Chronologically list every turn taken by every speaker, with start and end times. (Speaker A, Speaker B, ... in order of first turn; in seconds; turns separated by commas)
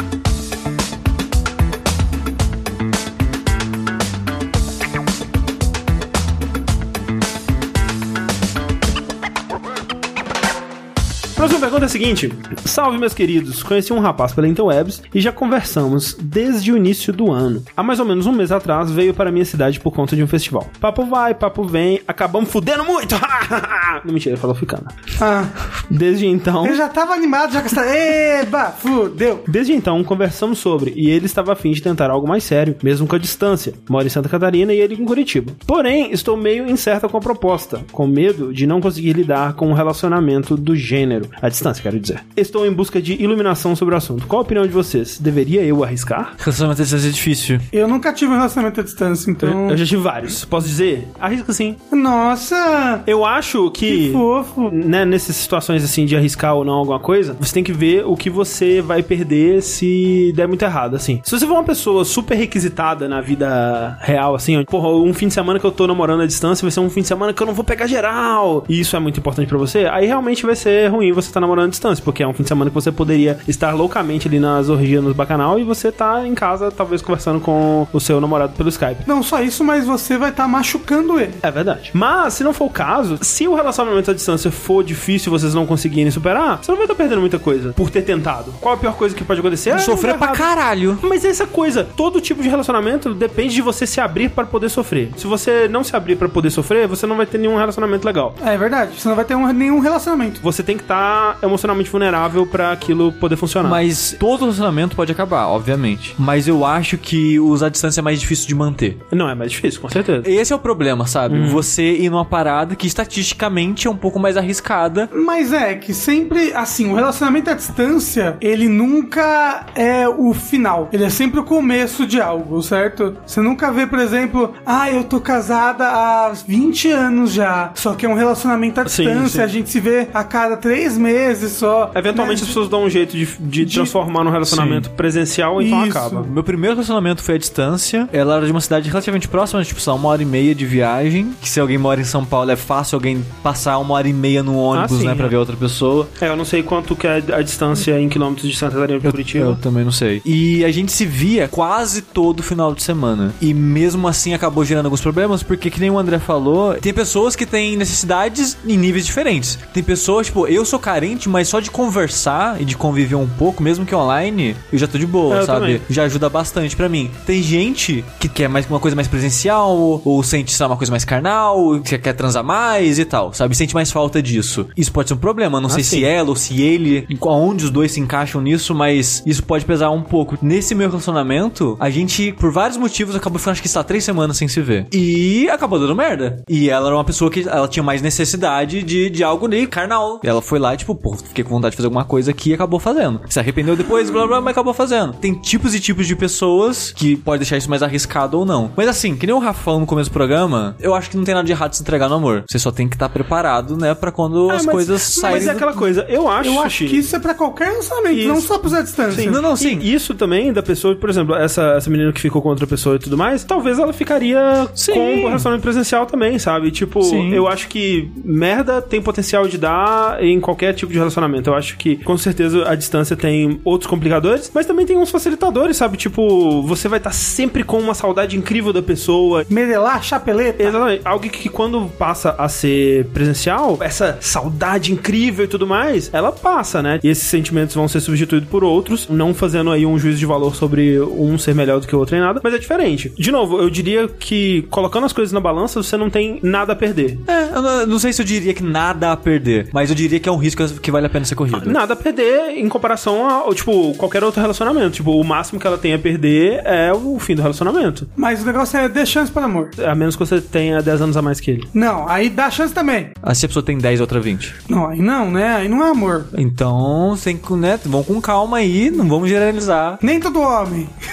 Speaker A: 11.4-25.2, Speaker B: 25.2-25.6, Speaker A: 25.9-26.8, Speaker B: 26.6-29.5, Speaker A: 29.5-46.4, Speaker C: 46.4-47.7, Speaker B: 47.7-49.8, Speaker A: 49.4-51.8, Speaker B: 51.9-53.1, Speaker A: 53.1-79.0, Speaker B: 53.9-54.8, Speaker B: 79.1-81.4, Speaker A: 81.4-98.4, Speaker C: 89.7-91.0, Speaker B: 98.4-100.4, Speaker A: 100.4-103.8, Speaker C: 103.6-109.0, Speaker A: 109.1-110.3, Speaker C: 110.2-115.1, Speaker A: 111.3-111.7, Speaker B: 115.1-132.6, Speaker A: 128.9-129.5, Speaker A: 131.9-136.3, Speaker B: 133.6-133.9, Speaker C: 134.5-134.9, Speaker B: 135.6-136.2, Speaker C: 136.2-146.1, Speaker A: 144.7-145.3, Speaker A: 146.2-149.6, Speaker C: 149.0-205.7, Speaker A: 165.3-165.8, Speaker A: 175.7-176.1, Speaker A: 204.5-207.0, Speaker B: 205.1-205.7, Speaker B: 206.4-209.4, Speaker A: 208.1-208.5, Speaker A: 209.1-229.5, Speaker C: 209.2-209.8, Speaker C: 214.8-215.5, Speaker C: 217.0-217.5, Speaker B: 229.5-230.8, Speaker A: 230.6-247.2, Speaker C: 247.3-251.8, Speaker A: 251.5-258.1, Speaker B: 258.2-259.7, Speaker A: 259.8-261.7, Speaker B: 261.7-263.1, Speaker C: 263.2-264.6, Speaker B: 264.7-266.3, Speaker C: 266.3-270.0, Speaker B: 270.0-270.9